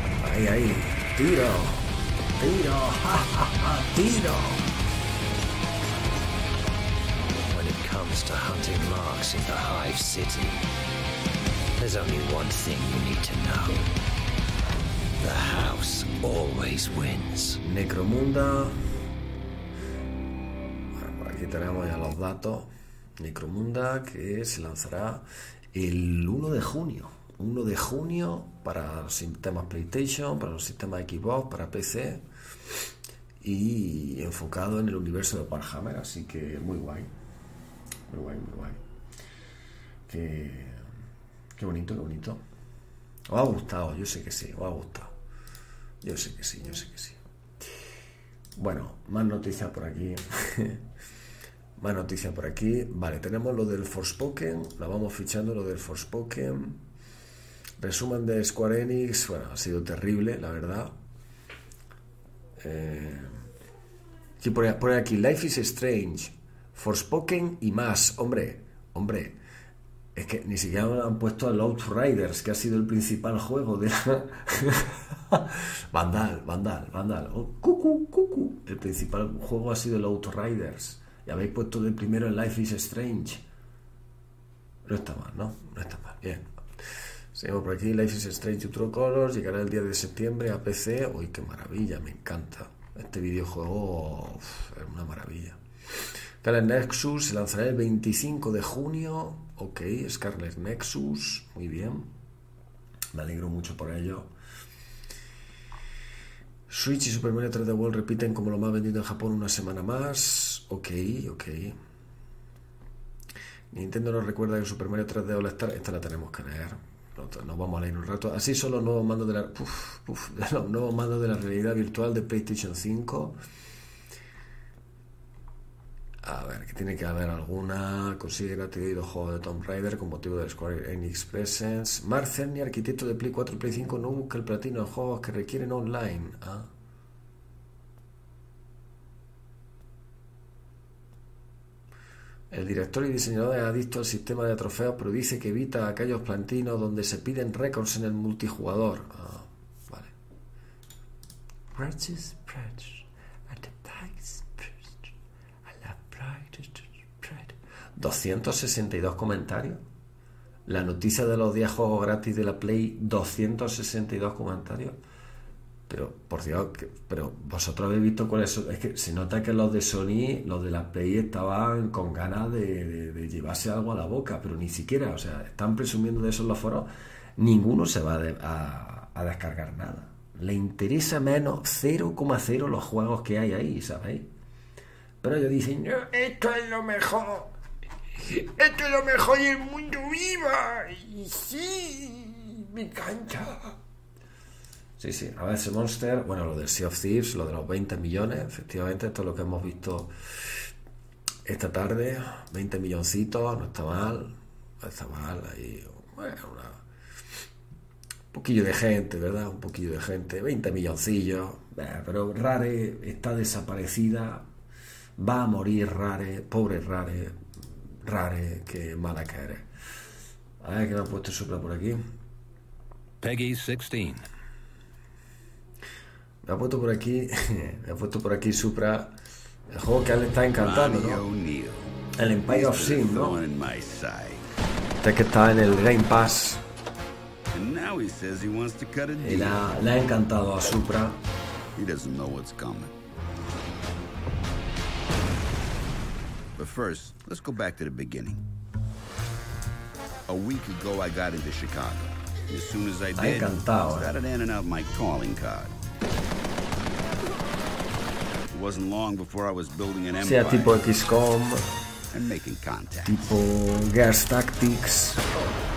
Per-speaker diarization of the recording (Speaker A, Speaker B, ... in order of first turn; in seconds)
Speaker A: 0.2-4.6, 17.6-18.8, 20.9-32.2, 33.4-37.1, 38.1-38.8, 40.1-40.8, 41.6-42.4, 43.3-45.1, 46.0-47.2, 48.6-50.8, 51.8-56.8, 57.8-60.9, 62.6-63.3, 64.4-69.4, 70.2-83.4, 84.8-86.5, 87.3-95.6, 96.4-102.1, 103.1-104.3, 106.7-111.8, 113.7-123.4, 126.2-136.7, 142.5-150.1, 151.7-154.7, 155.7-159.8, 160.7-165.0, 165.9-184.3, 185.2-187.5, 188.3-193.8, 195.0-200.1, 201.5-206.8, 208.3-214.5, 215.2-217.4, 218.1-219.7, 220.6-222.0, 226.4-229.1, 229.7-231.2, 232.2-233.4, 235.0-236.6, 239.2-241.2, 253.2-254.1, 260.2-261.6, 263.1-265.4
Speaker B: 7.5-10.6, 11.8-13.9, 15.2-17.6, 223.2-224.1
Speaker C: 230.6-231.9, 232.5-234.4, 237.5-239.7, 241.8-242.9, 246.6-248.4, 250.3-255.8, 258.5-260.8, 262.1-263.2